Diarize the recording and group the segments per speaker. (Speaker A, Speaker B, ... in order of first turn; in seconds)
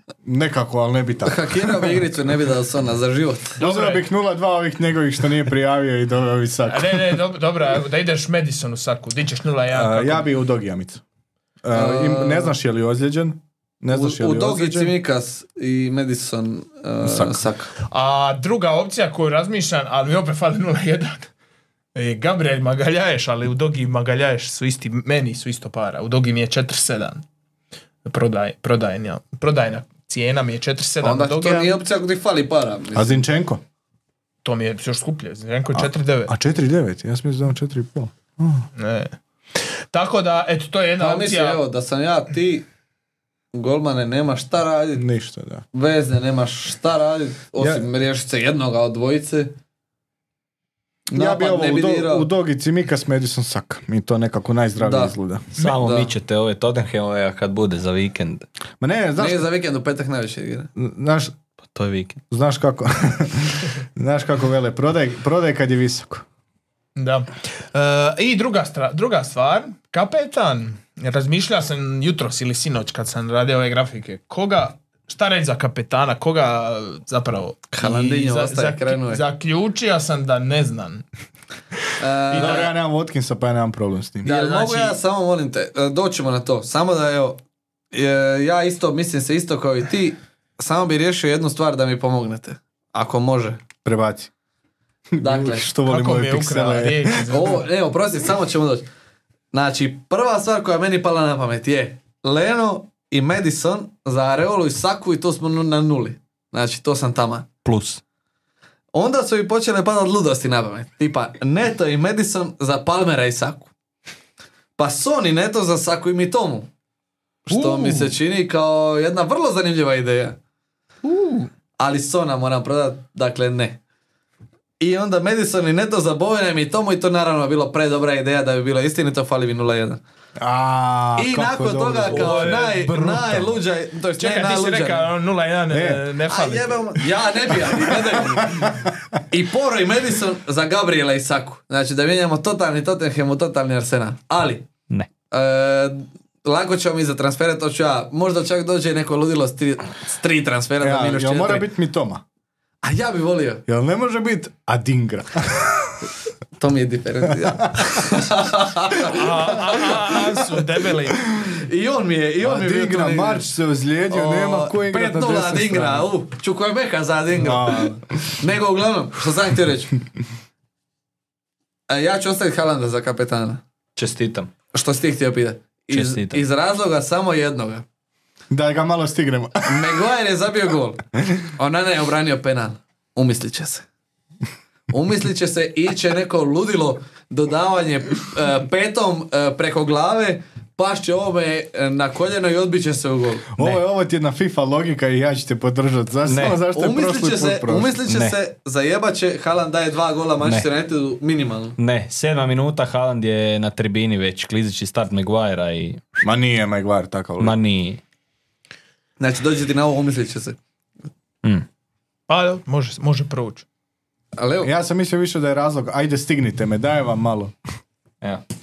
Speaker A: 0.2-1.9, 3.6-7.2, 9.7-11.0, 11.6-14.9, 17.0-17.5, 33.0-33.6, 35.7-38.7, 45.0-45.6, 47.6-47.9, 51.1-55.5, 58.8-59.5, 60.8-61.3, 62.3-66.2, 82.3-84.3, 93.8-94.3, 95.1-97.3, 130.4-133.5, 135.7-136.0, 137.7-139.2, 150.8-152.2, 153.7-156.1, 157.5-158.2, 162.4-166.1, 167.3-168.3, 178.5-180.0, 193.5-198.0, 206.2-207.6, 214.6-217.5
Speaker B: 1.2-3.6, 11.7-12.6, 13.9-17.7, 31.0-33.2, 41.0-42.7, 43.5-45.0, 45.7-49.5, 51.1-52.3, 54.8-56.1, 59.2-60.7, 77.7-79.2, 82.0-82.7, 84.2-87.4, 87.9-93.6, 95.2-95.7, 97.3-98.9, 99.5-107.5, 108.9-113.7, 114.8-116.7, 117.5-120.4, 121.8-123.8, 124.8-130.0, 131.2-135.1, 136.3-138.8, 139.3-144.7, 145.3-151.7, 152.8-153.6, 156.6-159.8, 161.4-163.5, 164.1-169.9, 171.9-173.6, 174.7-177.8, 179.7-181.0, 181.6-183.8, 184.9-193.5, 196.7-201.8, 209.2-210.6, 214.4-214.7
Speaker C: 3.6-4.0, 6.7-10.3, 17.9-21.3, 21.9-27.2, 28.1-31.8, 34.4-36.3, 38.8-39.2, 39.9-41.6, 67.0-81.0, 82.3-82.7, 84.2-85.0, 95.9-97.7, 117.5-118.1, 121.0-121.5, 134.2-136.9, 159.0-161.2, 212.3-213.7
Speaker D: 55.6-58.5, 61.7-62.2, 107.7-108.0, 132.1-133.2, 174.0-174.5, 175.9-176.4, 196.3-196.6, 198.1-198.4, 201.8-206.1, 207.4-208.0